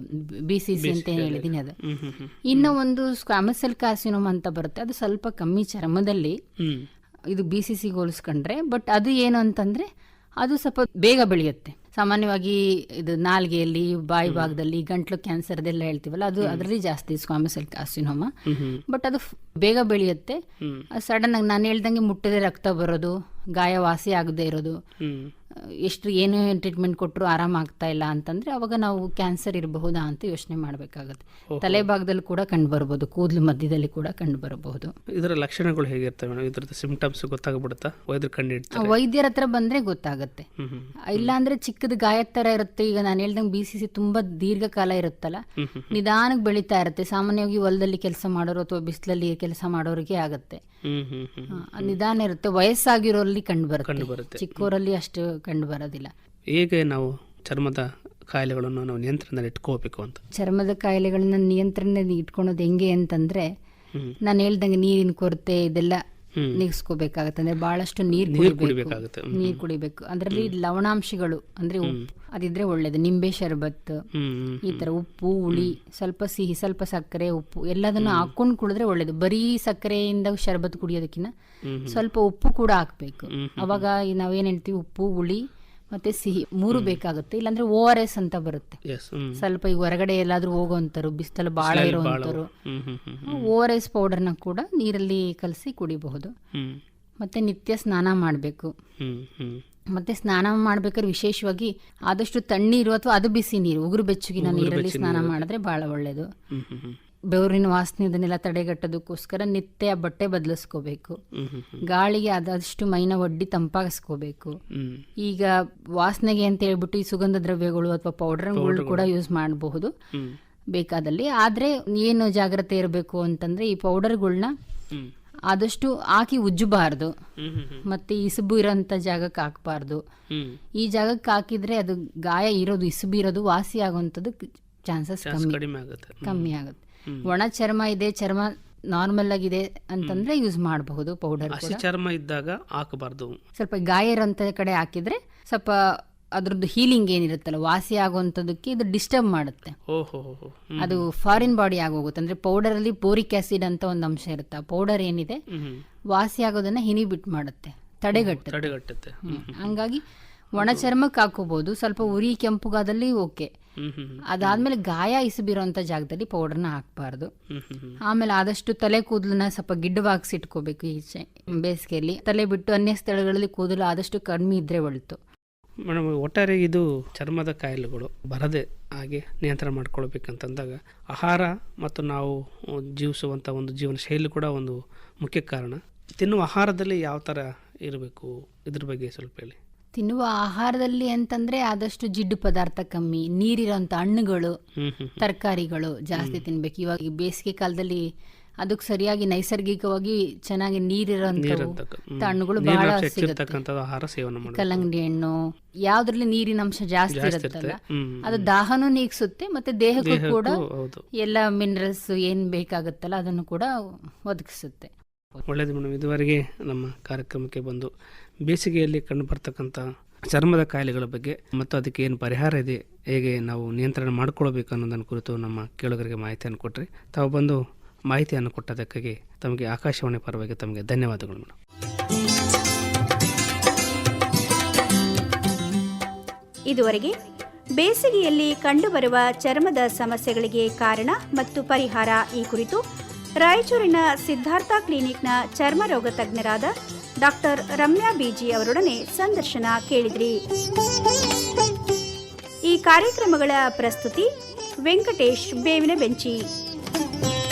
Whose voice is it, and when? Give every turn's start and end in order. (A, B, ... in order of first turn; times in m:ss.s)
0:00.5-0:01.7 A
0:00.8-0:02.8 B
0:02.5-0:06.4 A
0:06.6-0:06.9 B
0:07.3-0:09.9 A
0:10.4-0:18.3 A
0:14.2-0:14.5 B
0:16.4-0:16.6 B
0:18.5-0:18.8 B
0:18.9-0:20.4 A
0:20.6-0:20.8 B
0:20.9-0:24.8 A
0:25.0-0:25.3 B
0:25.8-0:34.9 A
0:31.5-0:31.9 B
0:35.2-0:38.9 B
0:38.7-0:40.4 A
0:40.6-0:41.3 B
0:41.1-0:50.6 A
0:45.6-0:45.9 B
0:50.8-0:52.0 B
0:51.5-0:56.1 A
0:53.8-0:54.7 B
0:56.5-1:00.2 B
1:00.3-1:03.5 A
1:04.2-1:06.0 A
1:06.5-1:14.0 A
1:08.1-1:09.6 B
1:14.1-1:14.9 B
1:14.6-1:21.3 A
1:18.0-1:18.3 B
1:21.6-1:22.0 B
1:21.9-1:28.8 A
1:23.3-1:23.8 B
1:26.7-1:27.0 B
1:28.8-1:29.4 B
1:29.4-1:32.5 A
1:31.6-1:33.5 B
1:33.3-1:36.3 A
1:36.5-1:36.8 B
1:37.2-1:38.7 A
1:39.0-1:39.6 B
1:39.9-1:46.3 A
1:44.4-1:45.4 B
1:46.5-1:47.0 B
1:47.3-1:51.2 A
1:51.3-1:51.8 B
1:51.8-1:54.5 A
1:54.7-1:55.0 B
1:55.2-1:59.9 A
1:58.5-1:59.1 B
2:00.7-2:04.5 A
2:05.5-2:07.1 A
2:07.4-2:07.8 B
2:07.8-2:10.0 A
2:10.3-2:10.6 B
2:10.8-2:15.6 A
2:15.2-2:16.5 B
2:16.2-2:21.8 A
2:21.5-2:23.4 B
2:23.6-2:25.8 A
2:26.4-2:29.8 A
2:29.9-2:31.5 B
2:30.8-2:35.4 A
2:35.5-2:35.8 B
2:36.1-2:38.7 A
2:38.1-2:39.7 B
2:39.2-2:40.0 A
2:40.6-2:43.5 A
2:40.6-2:40.9 B
2:43.8-2:44.6 B
2:44.3-2:47.3 A
2:47.5-2:48.0 B
2:48.0-2:55.2 A
2:55.8-3:09.6 B
3:10.0-3:14.6 A
3:14.8-3:15.2 B
3:15.2-3:18.0 A
3:16.2-3:16.4 B
3:18.6-3:23.6 A
3:21.4-3:24.9 B
3:24.4-3:30.6 A
3:27.1-3:28.5 B
3:30.0-3:31.0 B
3:31.2-3:33.7 A
3:34.2-3:34.9 A
3:35.4-3:37.9 B
3:38.4-3:51.6 B
3:56.7-3:57.1 C
3:57.8-4:02.8 C
4:03.4-4:10.4 C
4:12.7-4:14.3 C
4:14.8-4:16.4 C